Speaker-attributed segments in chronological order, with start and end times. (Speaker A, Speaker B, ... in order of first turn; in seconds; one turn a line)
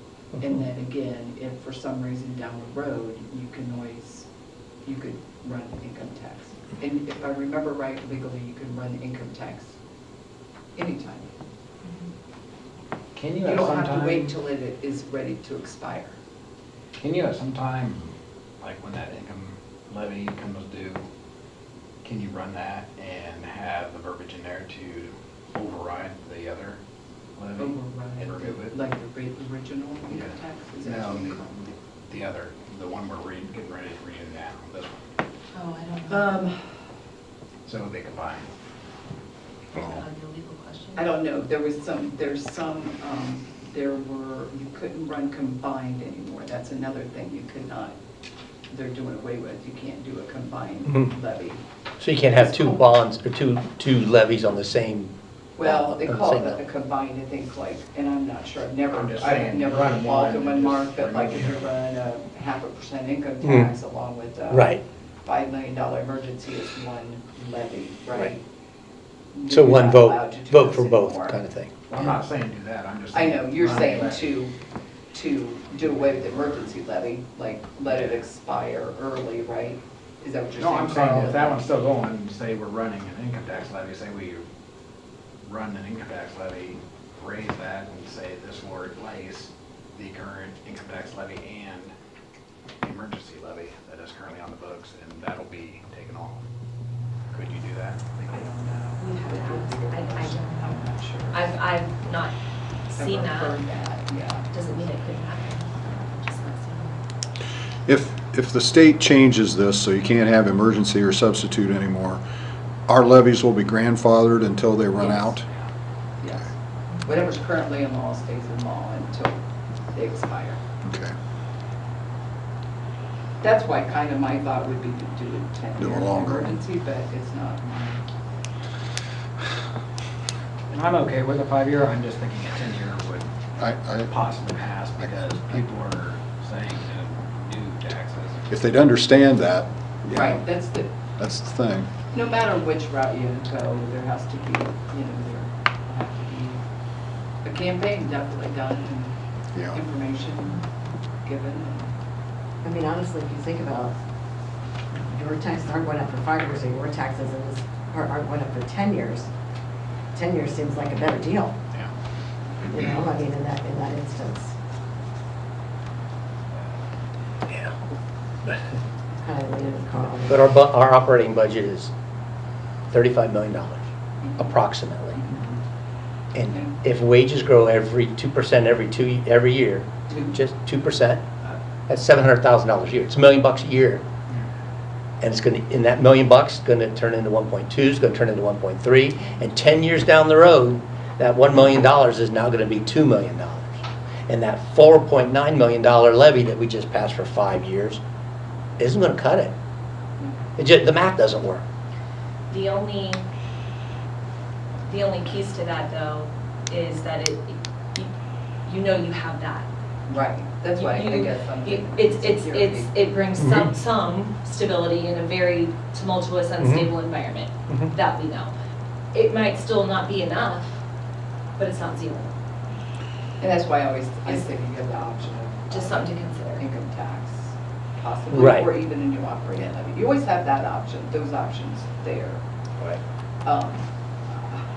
Speaker A: 0.4-4.2
Speaker A: 4.8-9.7
Speaker A: 10.8-11.3
Speaker B: 13.1-14.3
Speaker A: 13.4-16.1
Speaker B: 17.0-21.0
Speaker B: 22.0-26.8
Speaker B: 27.4-28.8
Speaker A: 27.6-31.4
Speaker B: 30.1-35.0
Speaker C: 35.5-36.4
Speaker A: 36.1-36.7
Speaker B: 37.6-38.5
Speaker C: 40.0-41.1
Speaker A: 41.0-48.0
Speaker A: 48.7-51.6
Speaker D: 52.0-56.6
Speaker A: 52.3-52.8
Speaker A: 55.5-68.4
Speaker B: 58.9-61.7
Speaker D: 63.4-63.7
Speaker D: 64.5-64.8
Speaker A: 69.3-71.4
Speaker D: 69.5-71.8
Speaker B: 71.9-74.3
Speaker A: 73.1-74.5
Speaker A: 75.1-81.6
Speaker B: 76.0-76.4
Speaker B: 80.6-84.5
Speaker B: 85.4-91.9
Speaker B: 92.8-96.5
Speaker B: 97.3-98.5
Speaker A: 98.3-101.5
Speaker C: 99.0-100.8
Speaker C: 101.3-103.6
Speaker A: 103.0-104.5
Speaker C: 104.5-107.0
Speaker E: 107.8-112.2
Speaker E: 112.9-115.4
Speaker A: 116.2-116.5
Speaker A: 117.0-119.4
Speaker A: 119.9-120.6
Speaker E: 120.8-121.1
Speaker A: 123.4-128.0
Speaker E: 125.8-126.5
Speaker B: 130.7-133.3
Speaker E: 133.6-134.1
Speaker B: 134.0-138.5
Speaker E: 138.5-140.4
Speaker A: 140.1-140.9
Speaker E: 141.2-141.9
Speaker A: 142.1-146.6
Speaker A: 147.4-149.2
Speaker E: 149.5-149.8
Speaker A: 149.7-150.6
Speaker A: 151.2-151.9
Speaker F: 152.6-153.9
Speaker F: 154.9-159.3
Speaker F: 160.1-161.5
Speaker F: 162.7-164.5
Speaker F: 169.2-170.5
Speaker D: 170.3-171.9
Speaker D: 172.9-173.8
Speaker A: 174.2-174.5
Speaker D: 174.4-175.2
Speaker A: 175.2-175.6
Speaker D: 176.3-181.2
Speaker A: 180.1-180.3
Speaker D: 181.9-184.0
Speaker D: 185.2-198.0
Speaker D: 198.8-199.5
Speaker A: 200.2-200.4
Speaker D: 200.6-201.6
Speaker C: 202.5-203.3
Speaker C: 204.8-208.1
Speaker C: 208.6-209.7
Speaker A: 210.1-212.9
Speaker C: 210.7-218.5
Speaker D: 213.4-213.7
Speaker D: 216.6-216.9
Speaker C: 219.1-220.8
Speaker C: 221.6-222.3
Speaker A: 223.4-232.4
Speaker C: 225.7-226.7
Speaker D: 228.3-228.7
Speaker A: 233.4-234.6